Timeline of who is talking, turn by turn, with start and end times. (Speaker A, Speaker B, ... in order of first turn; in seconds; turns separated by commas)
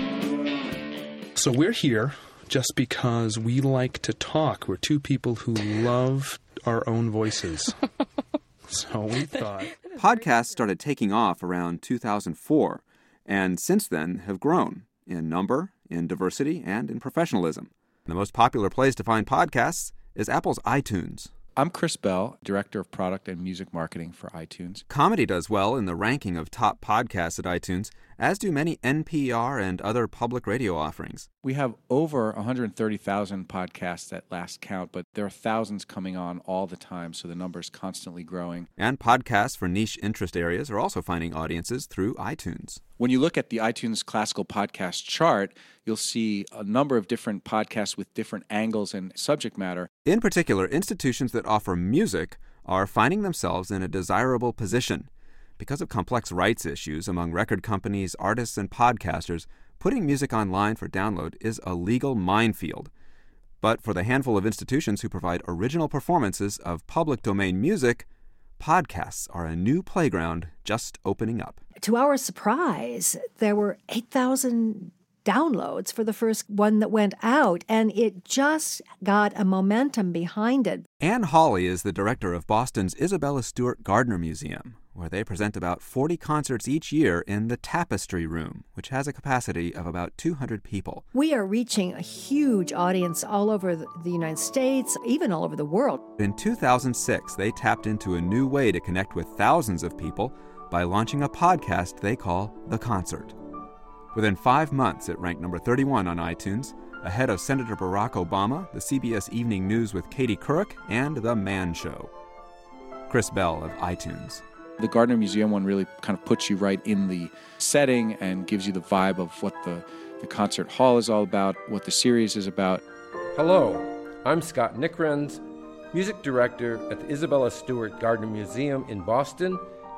Speaker A: 1.4-7.8, Speaker A: 8.7-9.8, Speaker B: 9.9-21.3, Speaker C: 21.6-24.8, Speaker B: 24.9-31.3, Speaker C: 31.4-38.7, Speaker B: 38.8-42.8, Speaker C: 43.0-49.9, Speaker B: 50.0-62.9, Speaker B: 63.6-68.0, Speaker B: 68.6-71.6, Speaker D: 71.8-80.9, Speaker B: 81.0-91.0, Speaker D: 91.1-96.0, Speaker B: 96.2-103.4, Speaker B: 104.1-112.1, Speaker B: 113.1-114.4, Speaker C: 114.8-122.8, Speaker E: 123.3-129.6